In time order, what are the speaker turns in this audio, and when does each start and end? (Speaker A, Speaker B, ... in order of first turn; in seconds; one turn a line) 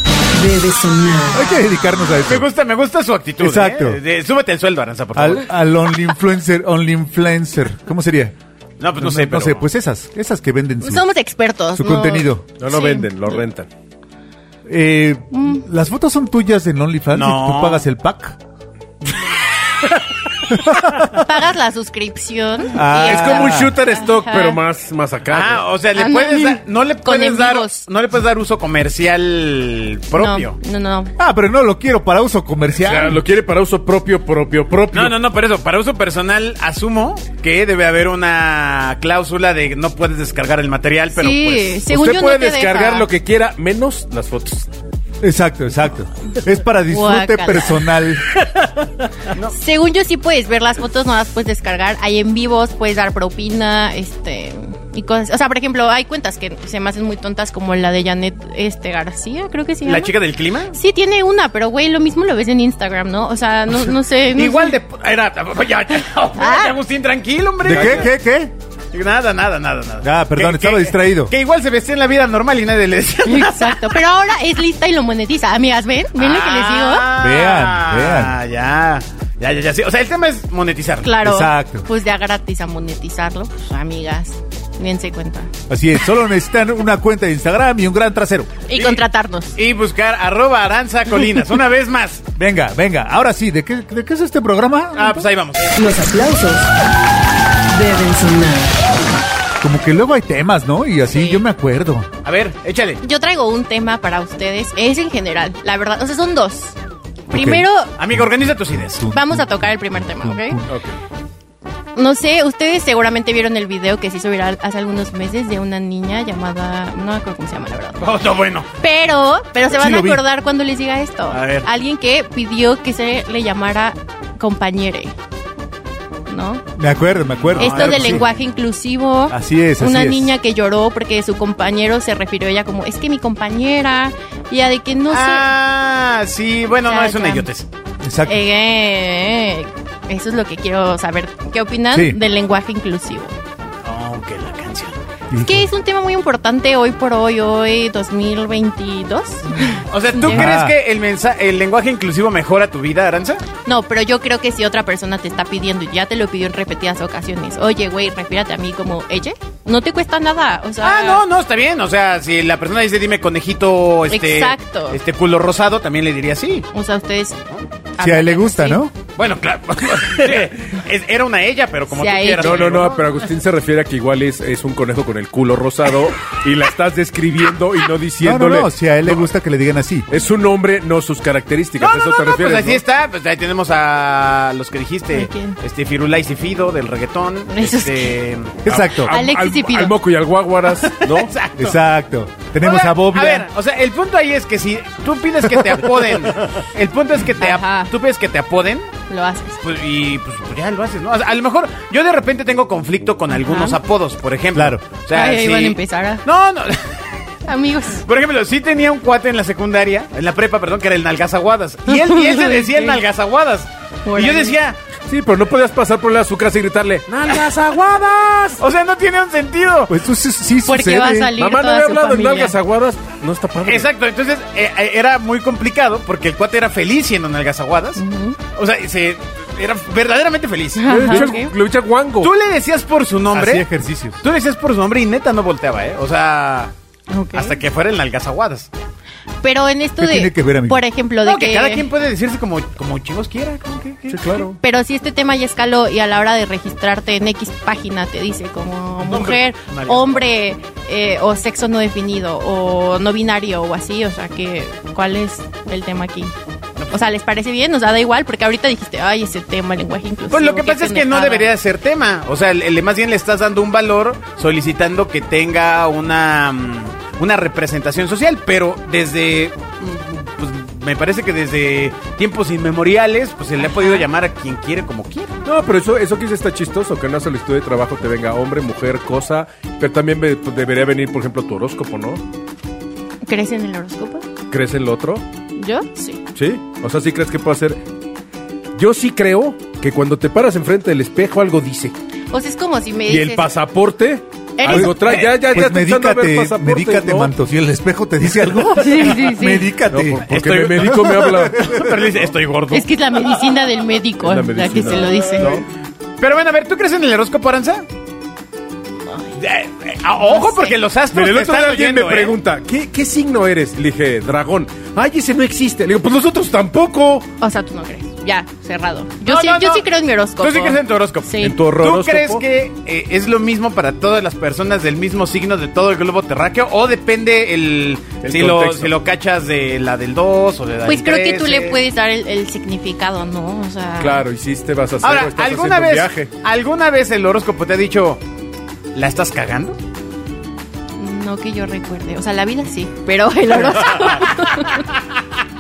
Speaker A: 0.3-1.5
Speaker B: 1.3-2.5
Speaker C: 2.2-5.5
Speaker B: 3.4-4.0
Speaker B: 5.1-8.3
Speaker C: 8.8-9.7
Speaker B: 9.0-11.1
Speaker D: 10.8-13.4
Speaker B: 11.8-12.4
Speaker E: 12.6-13.7
Speaker B: 14.7-18.4
Speaker D: 15.3-15.7
Speaker C: 17.1-17.8
Speaker B: 20.5-21.3
Speaker D: 21.1-24.6
Speaker B: 22.7-23.7
Speaker E: 22.9-25.7
Speaker C: 25.3-30.6
Speaker D: 25.9-27.8
Speaker D: 30.2-31.1
Speaker B: 31.2-33.2
Speaker E: 32.8-35.2
Speaker C: 34.9-41.8
Speaker D: 41.1-43.1
Speaker E: 41.9-44.7
Speaker B: 45.2-48.2
Speaker D: 46.9-47.8
Speaker D: 49.5-60.1
Speaker C: 59.8-60.8
Speaker D: 60.7-64.8
Speaker C: 64.3-68.1
Speaker D: 66.4-66.8
Speaker B: 67.6-68.5
Speaker E: 67.7-68.1
Speaker C: 68.9-74.0
Speaker B: 70.0-71.3
Speaker D: 73.2-77.1
Speaker C: 76.2-81.1
Speaker B: 77.2-78.4
Speaker D: 81.0-85.5
Speaker B: 81.2-81.9
Speaker B: 85.7-88.6
Speaker D: 88.7-89.6
Speaker C: 88.8-89.0
Speaker C: 89.6-92.2
Speaker B: 92.4-95.3
Speaker C: 95.0-95.7
Speaker A: 95.8-96.7
Speaker A: 97.7-98.8
Speaker B: 99.6-102.1
Speaker D: 101.1-101.4
Speaker C: 102.2-103.0
Speaker D: 103.0-106.8
Speaker D: 107.3-108.0
Speaker B: 107.3-110.7
Speaker C: 108.0-109.0
Speaker D: 109.1-110.6
Speaker E: 110.7-111.0
Speaker D: 112.0-118.1
Speaker C: 118.0-118.7
Speaker D: 118.8-125.1
Speaker B: 119.7-120.2
Speaker C: 121.3-121.7
Speaker D: 126.3-126.6
Speaker B: 126.8-128.2
Speaker C: 127.5-128.3
Speaker D: 127.6-135.5
Speaker B: 129.3-130.3
Speaker C: 135.1-137.7
Speaker D: 136.8-137.5
Speaker B: 138.0-138.4
Speaker D: 138.3-143.3
Speaker B: 141.9-142.2
Speaker C: 143.8-145.0
Speaker B: 145.3-145.7
Speaker D: 145.4-150.6
Speaker C: 149.9-153.4
Speaker B: 150.2-150.8
Speaker D: 153.7-161.2
Speaker C: 160.8-166.7
Speaker D: 164.1-165.0
Speaker D: 166.7-167.4
Speaker D: 167.9-168.8
Speaker B: 168.0-168.9
Speaker C: 169.2-173.0
Speaker D: 171.9-172.9
Speaker E: 172.4-179.3
Speaker B: 178.2-180.1
Speaker E: 180.1-182.8
Speaker C: 181.8-188.6
Speaker D: 185.1-185.6
Speaker D: 187.5-188.2
Speaker B: 188.7-189.1
Speaker E: 188.7-191.3
Speaker D: 189.1-189.9
Speaker C: 190.8-191.8
Speaker B: 191.6-193.5
Speaker C: 192.6-198.9
Speaker D: 197.4-197.9
Speaker D: 199.1-199.6
Speaker C: 199.6-207.1
Speaker D: 203.3-203.8
Speaker B: 204.5-204.8
Speaker D: 205.1-206.2
Speaker D: 207.5-208.1
Speaker C: 208.1-214.8
Speaker D: 211.9-213.0
Speaker D: 214.1-214.6
Speaker E: 215.1-218.6
Speaker C: 218.6-219.9
Speaker B: 219.9-221.3
Speaker D: 220.7-222.6
Speaker E: 221.4-223.9
Speaker C: 223.7-228.0
Speaker D: 228.0-228.4
Speaker C: 228.5-231.3
Speaker D: 230.8-231.5
Speaker E: 230.9-232.3
Speaker C: 232.2-233.7
Speaker B: 233.3-234.2
Speaker C: 234.2-236.7
Speaker D: 237.1-237.6
Speaker C: 237.3-238.7
Speaker D: 239.4-241.9
Speaker B: 240.0-240.8
Speaker C: 241.2-244.3
Speaker E: 244.1-244.6
Speaker D: 244.6-256.3
Speaker C: 249.0-250.3
Speaker D: 256.9-261.5
Speaker C: 260.3-275.3
Speaker D: 273.6-274.1
Speaker E: 275.4-282.2
Speaker D: 283.2-284.2
Speaker E: 284.5-285.2
Speaker D: 285.6-286.2
Speaker E: 286.4-287.8
Speaker E: 288.8-291.9
Speaker D: 292.3-293.5
Speaker E: 293.1-297.3
Speaker D: 294.6-295.0
Speaker B: 294.7-300.3
Speaker D: 298.8-299.7
Speaker E: 299.9-301.7
Speaker C: 300.3-302.9
Speaker B: 300.8-302.0
Speaker D: 302.7-305.6
Speaker E: 304.2-305.6
Speaker C: 306.2-307.9
Speaker D: 309.1-309.3
Speaker C: 309.4-312.4
Speaker D: 310.3-310.8
Speaker E: 311.1-317.3
Speaker D: 317.4-321.6
Speaker C: 319.2-319.9
Speaker C: 320.4-331.8
Speaker E: 321.4-322.4
Speaker E: 328.2-328.9
Speaker D: 330.9-334.2
Speaker E: 334.0-336.3
Speaker C: 335.0-338.2
Speaker C: 338.9-339.8
Speaker D: 341.0-344.9
Speaker C: 343.7-344.4